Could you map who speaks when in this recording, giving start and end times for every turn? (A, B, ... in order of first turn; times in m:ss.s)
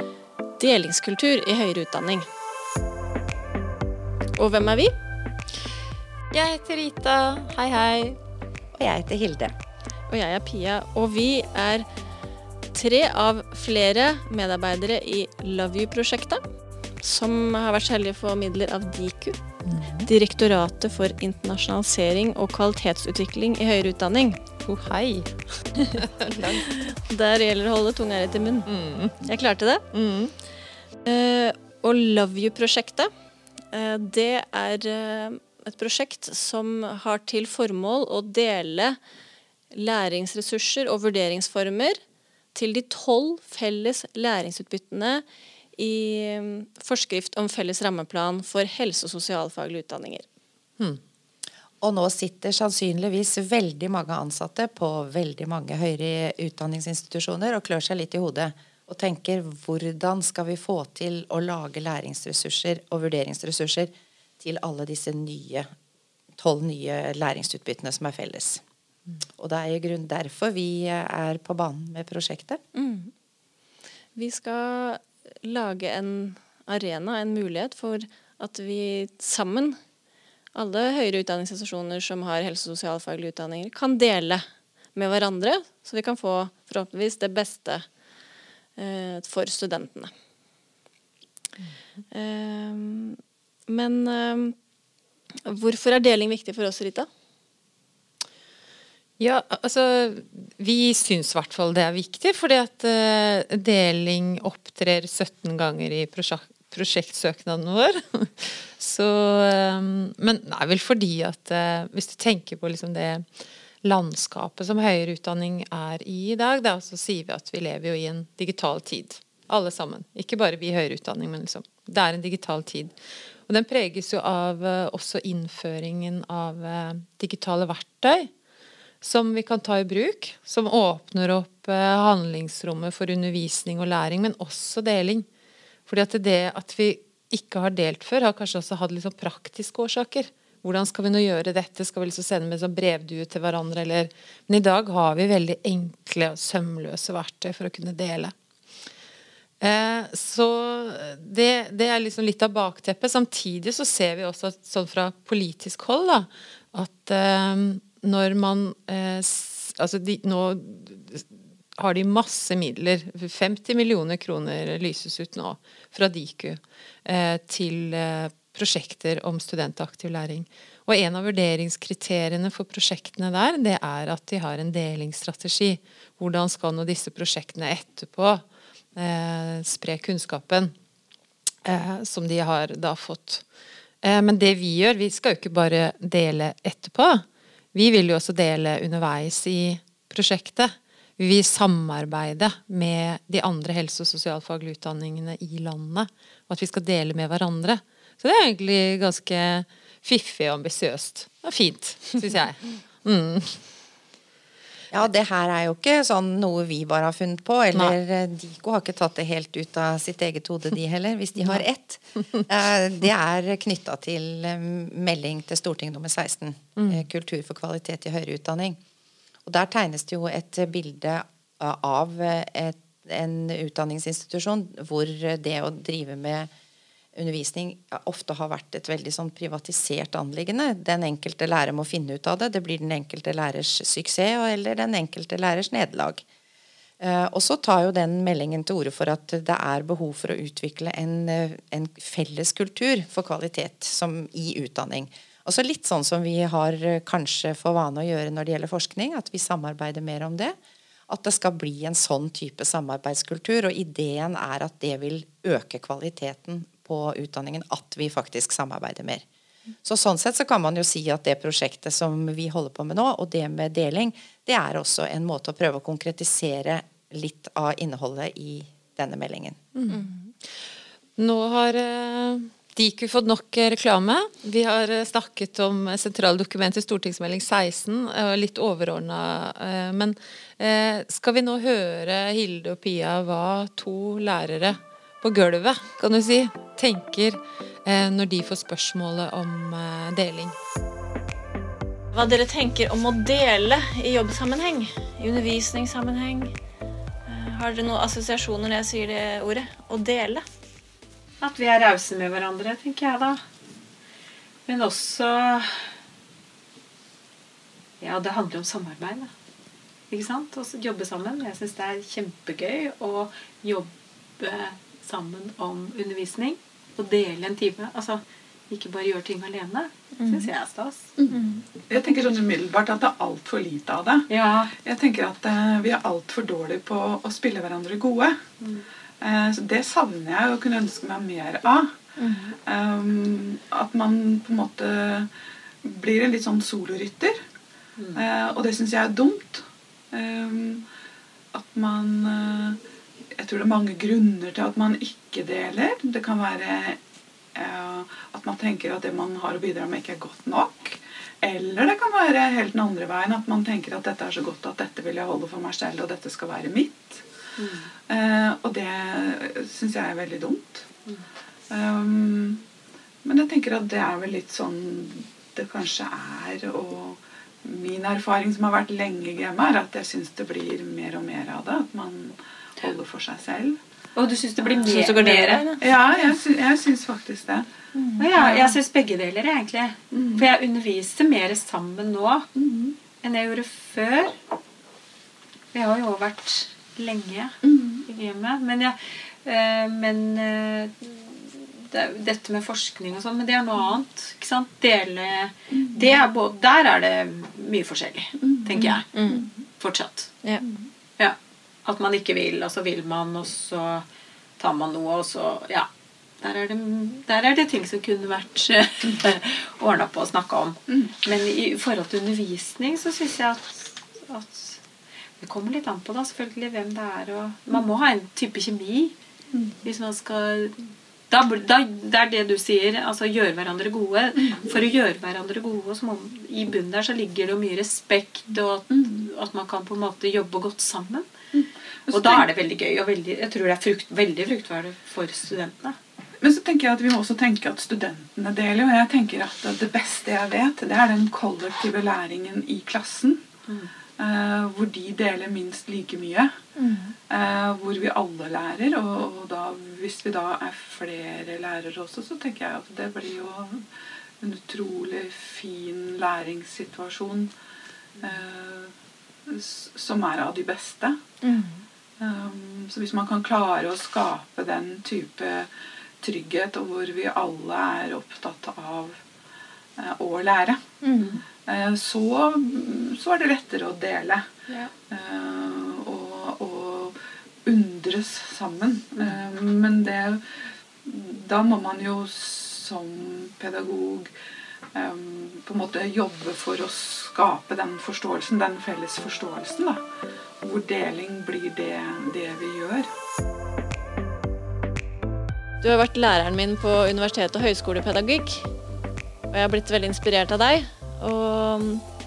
0:00.6-0:02.3 A
0:04.4-0:04.9 A
0:06.3-0:08.2 B
0:08.7-0:09.5 C
0:10.1-0:11.9 A
0:12.7-0:16.4 A
0:17.0-0:19.4 A
0:19.6-0:20.1 B
0:20.0-0:24.4 A
0:24.6-0:26.9 B
0:26.8-0:28.7 A
0:28.6-0:29.2 B
0:29.2-0:29.8 A
0:29.9-0:30.3 B
0:31.0-0:33.1 A
0:33.7-0:39.0 A
0:39.7-0:42.0 A
0:42.5-0:45.2 A
0:45.8-0:50.2 A
0:51.8-1:05.7 C
1:06.4-1:08.6 C
1:09.4-1:12.6 C
1:12.7-1:13.1 A
1:14.2-1:19.8 A
1:20.5-1:27.8 A
1:28.8-1:30.1 A
1:32.1-1:34.6 A
1:35.4-1:37.1 A
1:39.2-2:02.9 B
2:03.4-2:08.3 B
2:09.0-2:15.2 B
2:15.9-2:28.3 B
2:29.6-2:58.4 B
2:58.9-3:00.7 B
3:01.6-3:03.4 B
3:04.0-3:23.6 B
3:24.9-3:38.8 C
3:36.8-3:37.0 B
3:39.4-3:46.5 C
3:47.1-3:56.2 C
3:57.0-4:10.6 C
4:11.1-4:19.2 C
4:19.8-4:29.6 C
4:29.7-4:50.6 B
4:29.9-4:30.2 A
4:52.1-4:56.5 A
4:57.2-5:00.4 A
5:01.4-5:03.4 D
5:04.6-5:05.9 D
5:08.0-5:09.3 D
5:10.1-5:21.1 D
5:20.2-5:20.5 A
5:21.9-5:24.3 E
5:24.3-5:24.7 D
5:24.8-5:28.4 E
5:28.6-5:28.8 D
5:29.2-5:31.9 E
5:32.2-5:32.5 A
5:32.6-5:35.3 E
5:35.8-5:37.4 E
5:38.0-5:38.2 D
5:38.1-5:40.8 E
5:41.5-5:42.8 E
5:43.4-5:47.0 E
5:47.5-5:57.2 E
5:57.6-5:57.9 D
5:58.1-6:00.8 E
6:01.7-6:02.6 E
6:03.2-6:13.8 E
6:14.1-6:16.3 D
6:14.6-6:18.8 E
6:18.2-6:22.5 D
6:20.1-6:20.4 E
6:22.6-6:23.0 E
6:23.2-6:24.4 D
6:25.7-6:39.2 D
6:27.6-6:28.0 E
6:35.7-6:36.1 E
6:38.4-6:39.6 E
6:39.1-6:39.4 A
6:39.8-6:40.3 D
6:41.2-6:44.0 D
6:44.6-6:45.9 D
6:46.4-6:54.8 D
6:55.4-6:59.1 D
6:59.8-7:11.3 D
7:08.9-7:09.3 E
7:11.5-7:12.5 E
7:12.1-7:16.0 D
7:16.4-7:23.4 E
7:24.2-7:26.5 E
7:26.8-7:27.1 A
7:27.3-7:33.8 E
7:34.4-7:37.5 E
7:38.2-7:38.9 E
7:39.5-7:41.2 E
7:41.4-7:41.8 A
7:42.2-7:45.7 E
7:46.2-7:49.2 E
7:50.0-7:50.8 E
7:51.0-7:51.3 A
7:51.6-7:54.4 E
7:55.1-8:00.4 E
8:01.0-8:04.3 E
8:04.9-8:10.0 E
8:10.6-8:13.1 E
8:15.8-8:18.7 A
8:19.5-8:22.0 A